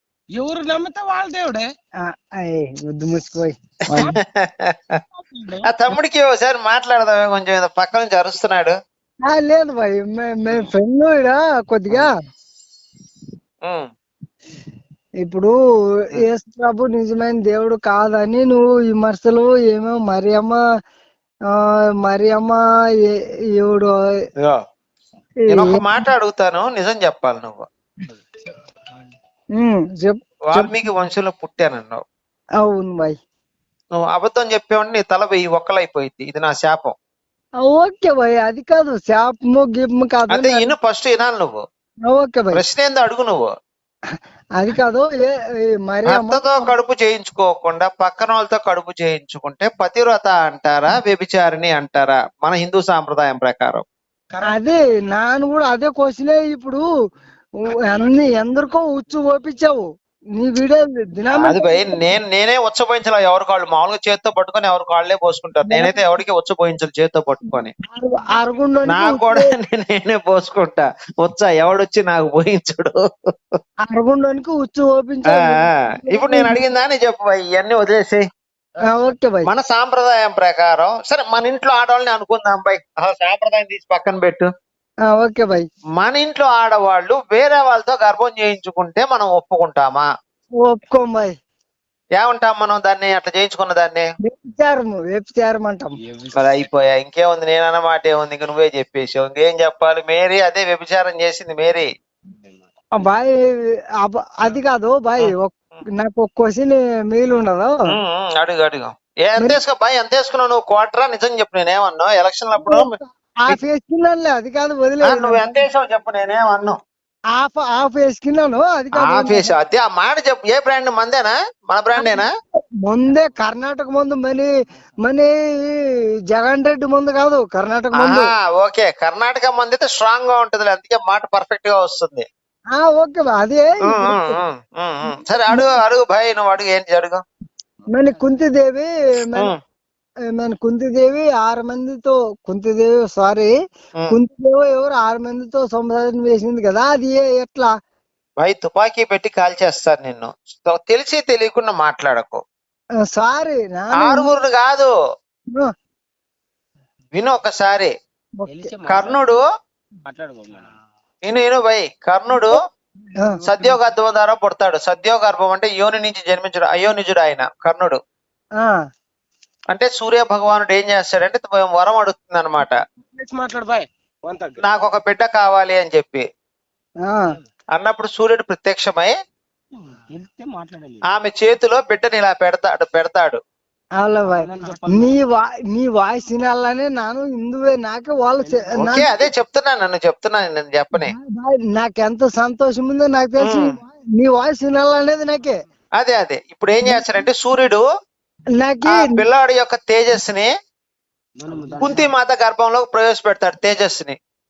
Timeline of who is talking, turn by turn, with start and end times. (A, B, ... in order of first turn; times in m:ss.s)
0:00.3-0:01.7 A
0:02.1-0:04.2 B
0:03.9-0:05.0 C
0:05.3-0:05.6 A
0:05.6-0:08.8 C
0:09.3-0:12.1 B
0:13.6-0:13.9 C
0:15.2-0:15.5 B
0:16.1-0:20.6 B
0:22.0-0:23.9 B
0:25.5-0:25.8 B
0:25.5-0:27.7 C
0:29.6-0:30.8 B
0:30.5-0:32.0 C
0:32.6-0:33.2 B
0:34.0-0:37.0 C
0:37.6-0:40.7 B
0:40.3-0:41.6 C
0:42.1-0:42.6 B
0:42.5-0:43.5 C
0:44.6-0:45.3 B
0:45.8-0:46.7 B
0:46.1-0:53.8 C
0:54.4-0:56.8 B
0:57.9-0:59.8 B
1:00.4-1:01.8 B
1:01.3-1:07.7 C
1:05.7-1:06.0 B
1:07.9-1:09.5 B
1:08.9-1:13.6 C
1:13.8-1:16.6 B
1:15.3-1:18.2 C
1:18.9-1:19.5 B
1:19.4-1:24.5 C
1:25.1-1:25.7 B
1:26.0-1:30.1 C
1:30.6-1:31.3 B
1:32.2-1:34.1 C
1:34.2-1:35.9 B
1:36.1-1:36.4 A
1:36.3-1:41.9 C
1:42.4-1:42.7 A
1:43.0-1:47.8 B
1:47.9-1:52.9 C
1:52.6-1:55.6 B
1:55.0-1:56.8 C
1:57.4-1:59.5 B
1:59.0-2:02.3 C
2:02.0-2:02.2 B
2:02.8-2:04.5 B
2:05.0-2:05.8 B
2:06.3-2:08.3 B
2:07.9-2:12.3 C
2:12.8-2:14.4 B
2:13.8-2:17.2 C
2:15.5-2:15.8 B
2:17.9-2:19.5 B
2:20.3-2:23.5 B
2:24.1-2:27.7 B
2:28.4-2:32.4 C
2:33.0-2:34.3 B
2:34.0-2:34.9 C
2:37.1-2:37.9 C
2:38.4-2:38.7 B
2:38.5-2:39.4 A
2:38.9-2:39.4 C
2:40.0-2:40.7 A
2:41.2-2:42.6 C
2:43.4-2:48.0 C
2:49.7-2:52.8 C
2:53.2-2:54.6 A
2:54.6-2:56.3 C
2:57.0-2:57.4 B
2:57.8-2:59.1 C
2:59.8-3:01.0 A
3:01.1-3:03.4 C
3:04.0-3:09.2 B
3:04.3-3:05.2 A
3:08.4-3:08.8 A
3:08.8-3:11.1 C
3:11.0-3:15.6 B
3:13.4-3:13.8 C
3:16.0-3:17.8 C
3:16.8-3:17.2 B
3:18.6-3:19.2 B
3:18.9-3:20.5 C
3:21.4-3:22.1 A
3:21.8-3:24.2 C